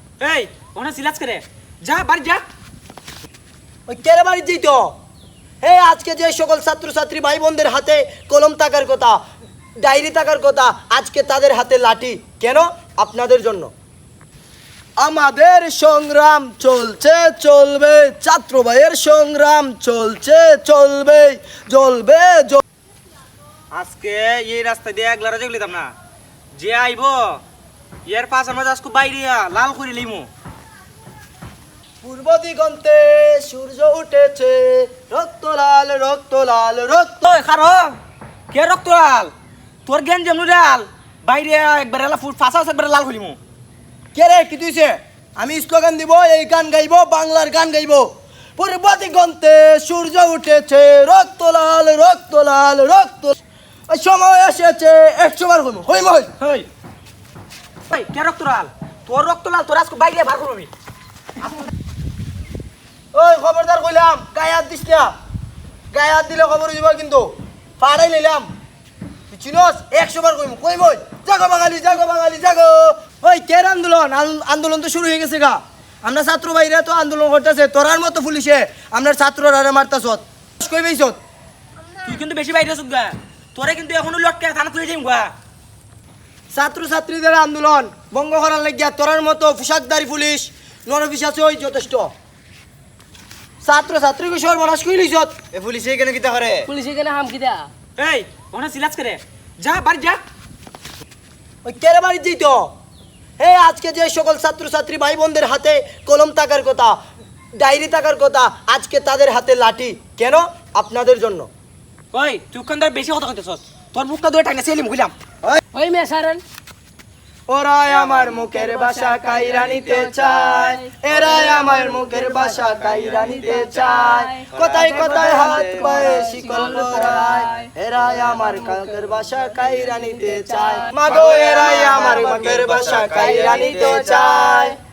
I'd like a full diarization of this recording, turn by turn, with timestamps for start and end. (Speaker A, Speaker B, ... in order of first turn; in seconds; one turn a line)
Speaker A: 0.2-2.4
Speaker B: 3.9-4.9
Speaker B: 5.6-9.2
Speaker B: 9.8-13.7
Speaker B: 15.0-22.6
Speaker A: 23.7-25.9
Speaker A: 26.6-27.4
Speaker A: 28.1-30.3
Speaker B: 32.0-37.3
Speaker A: 37.2-38.0
Speaker A: 38.5-39.3
Speaker A: 39.9-43.4
Speaker B: 44.1-56.3
Speaker A: 56.4-56.7
Speaker A: 57.9-60.7
Speaker B: 63.1-65.1
Speaker B: 65.9-68.5
Speaker B: 69.3-81.2
Speaker A: 82.0-85.3
Speaker B: 86.5-92.1
Speaker B: 93.6-95.3
Speaker C: 95.5-96.7
Speaker D: 96.7-97.7
Speaker A: 98.0-100.2
Speaker B: 101.6-102.7
Speaker B: 103.4-107.0
Speaker B: 107.6-111.5
Speaker A: 112.1-115.1
Speaker D: 115.7-116.4
Speaker B: 117.5-134.8
Speaker D: 118.4-124.3
Speaker C: 124.5-126.1
Speaker D: 124.8-127.7
Speaker D: 128.5-128.7
Speaker D: 130.3-131.0
Speaker C: 131.1-134.7
Speaker D: 133.1-134.5